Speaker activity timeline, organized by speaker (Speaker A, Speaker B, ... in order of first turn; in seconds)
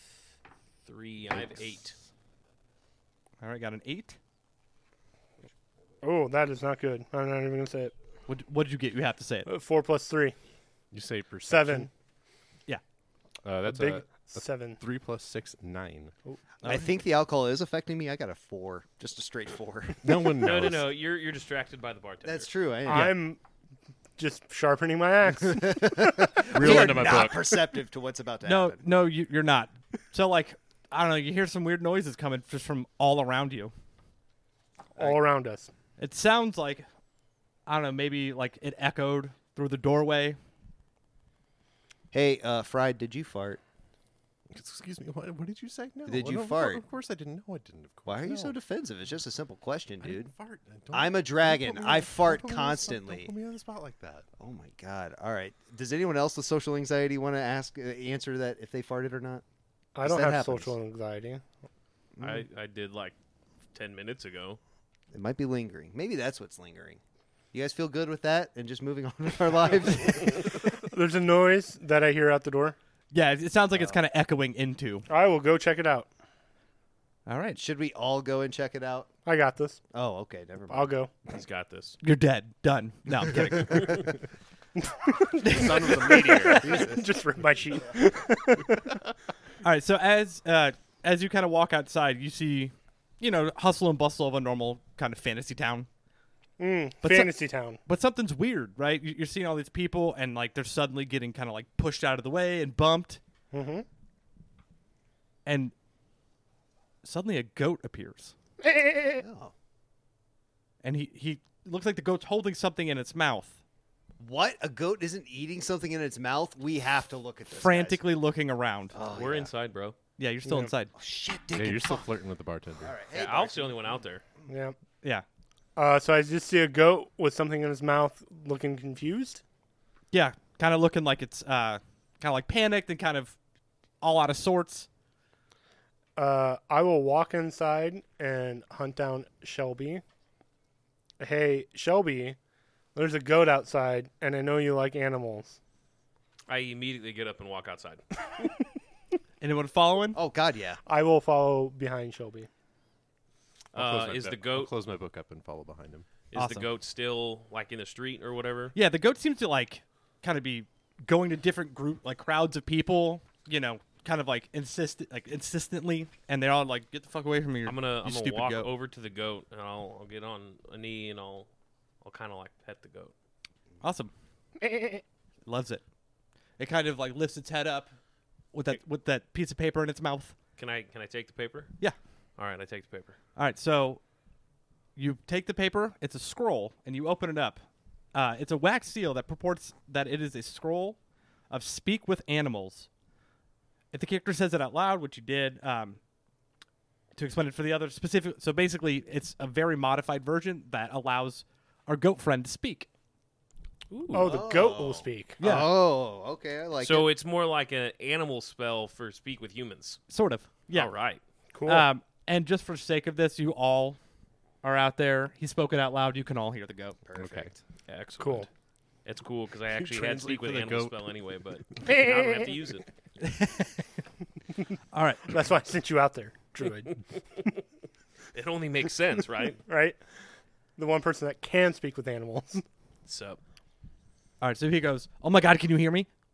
Speaker A: 0.8-1.9, 20.4-22.5, 62.2-63.2, 63.7-64.6, 81.3-82.0, 119.1-120.0, 123.1-124.2, 146.5-148.1, 153.7-154.7, 156.3-158.8, 167.7-171.5, 172.0-173.1, 180.6-181.7, 182.4-183.2, 203.9-204.5, 206.8-210.0, 210.7-211.2, 217.9-218.5, 219.1-222.9, 228.3-229.6, 233.1-233.4
Speaker B: 3.4-4.2, 8.3-9.5, 28.4-33.7, 36.0-36.9, 37.7-40.4, 73.1-75.1, 77.3-77.6, 82.0-84.0, 85.4-86.4, 89.6-95.9, 97.0-103.2, 105.5-105.7, 107.0-108.3, 110.8-113.6, 117.5-119.0, 120.2-120.9, 130.1-133.4, 134.0-134.9, 149.4-150.2, 156.3-156.7, 158.7-168.7, 173.8-174.1, 175.5-175.8, 176.6-177.9, 178.5-180.3, 183.4-184.0, 185.0-187.6, 188.1-191.0, 191.5-192.9, 193.9-196.0, 197.2-202.9, 205.4-205.7, 210.1-210.9, 211.7-214.0, 214.6-217.0, 223.2-223.9, 224.9-225.4, 234.4-236.1
Speaker C: 6.0-7.9, 9.5-10.4, 11.4-11.9, 13.6-14.8, 22.9-23.4, 24.2-26.7, 35.0-35.7, 60.0-61.4, 70.8-72.8, 75.1-76.1, 79.2-79.8, 80.7-81.1, 84.8-88.9, 96.6-97.8, 103.5-103.9, 108.6-109.2, 120.5-120.7, 124.5-124.8, 125.8-129.4, 136.2-140.0, 141.2-142.4, 142.9-145.6, 150.9-152.5, 174.6-175.0, 204.1-205.4, 211.5-211.9, 218.2-218.5, 221.8-222.5, 225.3-227.0, 229.7-230.0, 230.8-232.6
Speaker D: 10.9-11.9, 13.4-16.1, 20.0-20.9, 26.5-27.5, 44.5-48.5, 50.0-54.2, 85.5-87.0, 121.5-122.9, 153.7-156.1, 217.2-217.5, 219.7-221.1
Speaker E: 16.6-20.6, 22.2-23.1, 25.4-28.8, 42.1-43.6, 46.1-46.8, 48.1-50.3, 50.9-53.3, 54.4-59.4, 60.0-60.8, 62.2-62.4, 65.1-67.0, 67.5-70.7, 73.7-74.0, 77.5-79.1, 79.9-80.9, 86.6-87.0, 109.2-109.5, 114.2-118.0, 118.9-119.5, 120.9-122.1, 122.8-123.9, 150.2-150.8, 204.3-207.1, 217.1-217.6